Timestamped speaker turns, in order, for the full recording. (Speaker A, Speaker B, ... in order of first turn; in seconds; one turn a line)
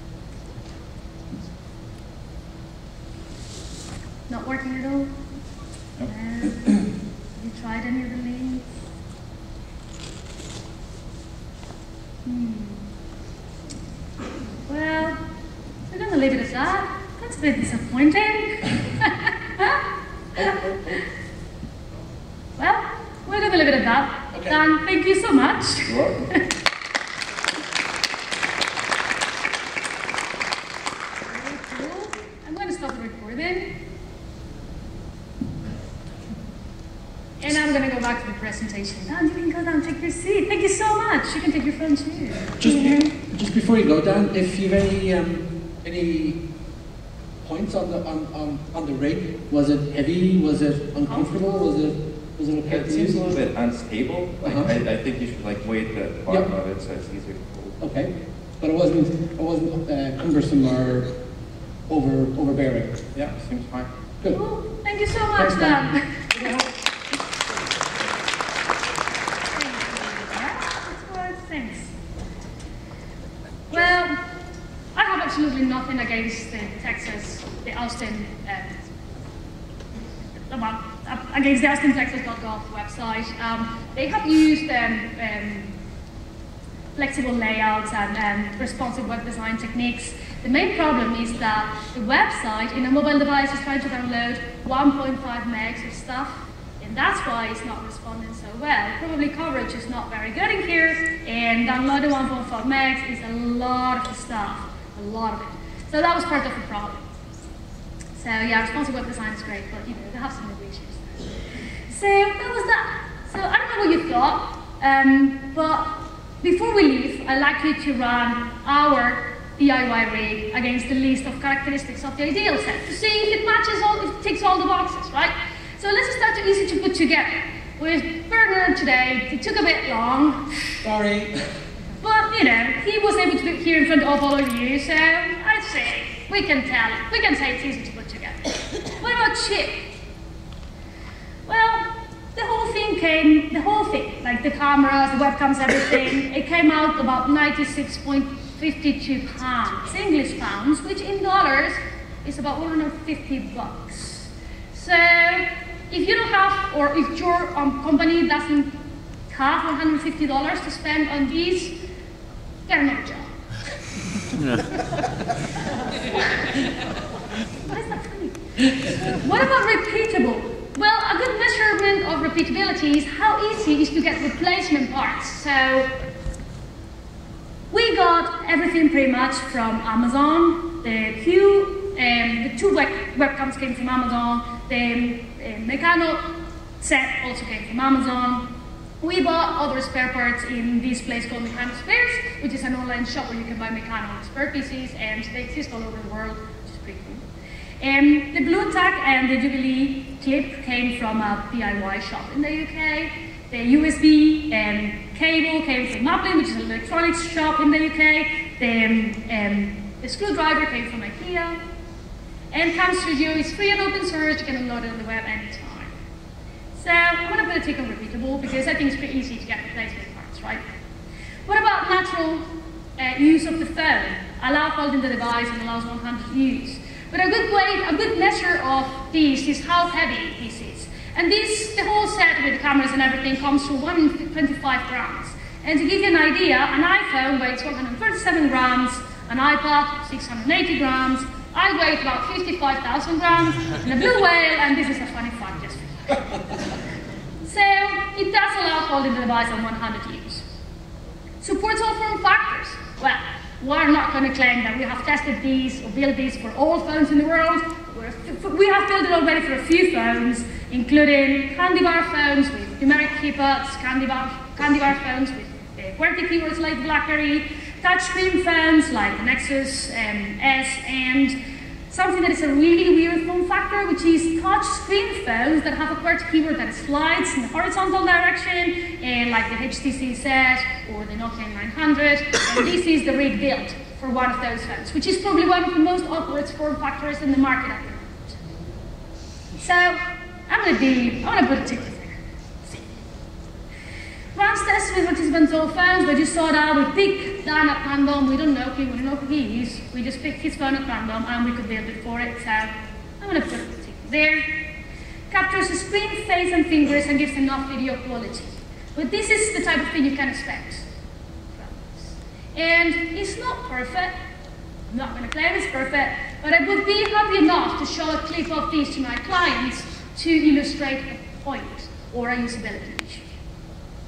Speaker A: 4.3-5.2
Speaker A: 6.0-6.8
Speaker A: 7.3-8.8
Speaker A: 12.2-12.8
Speaker A: 14.7-15.2
Speaker A: 15.9-19.8
Speaker B: 20.4-21.0
Speaker A: 22.6-26.4
Speaker C: 24.3-24.6
Speaker B: 25.9-26.3
Speaker A: 31.3-33.7
Speaker A: 37.4-43.1
Speaker C: 42.6-46.4
Speaker C: 47.4-53.4
Speaker A: 51.0-51.8
Speaker B: 52.7-57.8
Speaker C: 54.4-54.7
Speaker C: 57.8-61.1
Speaker C: 61.9-63.3
Speaker B: 63.1-63.9
Speaker A: 64.3-66.5
Speaker C: 65.3-66.7
Speaker A: 69.5-71.9
Speaker A: 73.7-74.2
Speaker A: 74.9-78.9
Speaker A: 80.3-85.7
Speaker A: 87.0-107.1
Speaker A: 108.2-130.8
Speaker C: 130.8-131.5
Speaker A: 132.0-139.9
Speaker A: 141.5-158.8
Speaker A: 159.3-161.8
Speaker A: 162.7-163.4
Speaker A: 167.7-175.9
Speaker A: 177.7-186.2
Speaker A: 186.8-188.5
Speaker A: 189.0-197.2
Speaker A: 197.8-211.6
Speaker A: 212.5-215.9
Speaker A: 216.7-220.6
Speaker A: 221.4-246.2
Speaker A: 247.4-250.4
Speaker A: 251.4-271.4
Speaker A: 271.9-288.4
Speaker A: 289.6-292.2
Speaker A: 294.3-304.6
Speaker A: 305.3-310.9
Speaker A: 311.5-314.1
Speaker A: 314.9-323.3